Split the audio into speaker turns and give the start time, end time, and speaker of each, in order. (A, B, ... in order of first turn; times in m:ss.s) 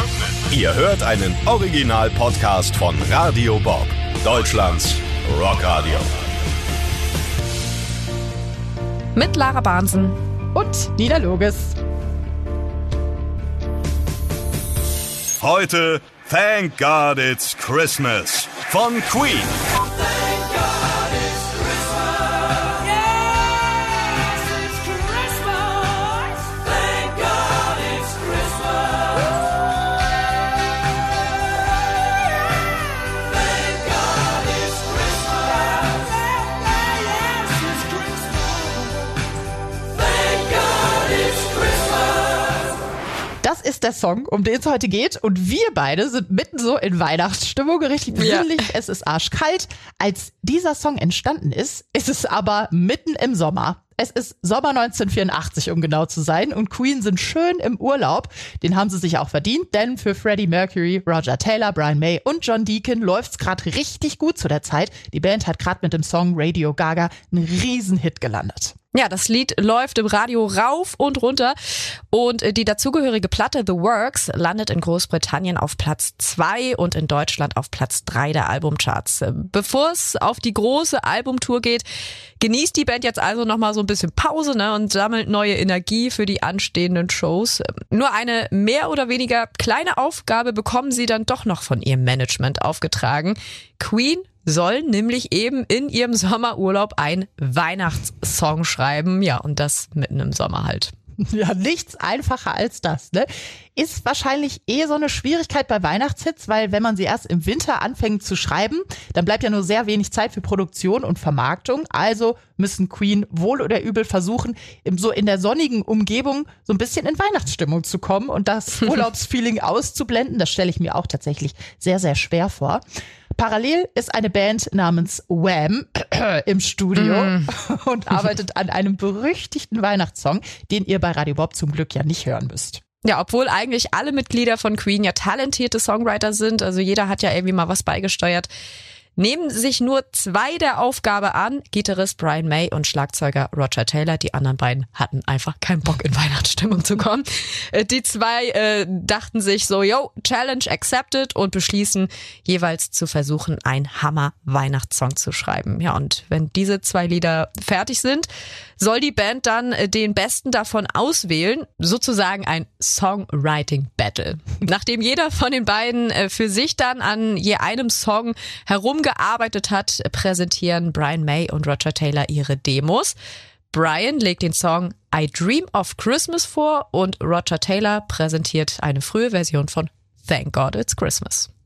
0:00.4-0:06.1 A
0:09.2-0:10.2 B
0:10.5-0:11.8 C
0:15.4-0:19.6 A
0:43.4-1:08.8 C
0:48.1-0:48.7 B
1:08.9-1:11.6 B
1:12.1-1:21.8 B
1:22.4-1:40.9 B
1:41.3-2:02.8 C
2:03.4-2:12.8 C
2:07.0-2:07.4 B
2:13.0-2:18.5 B
2:19.2-2:53.2 B
2:53.7-3:01.5 B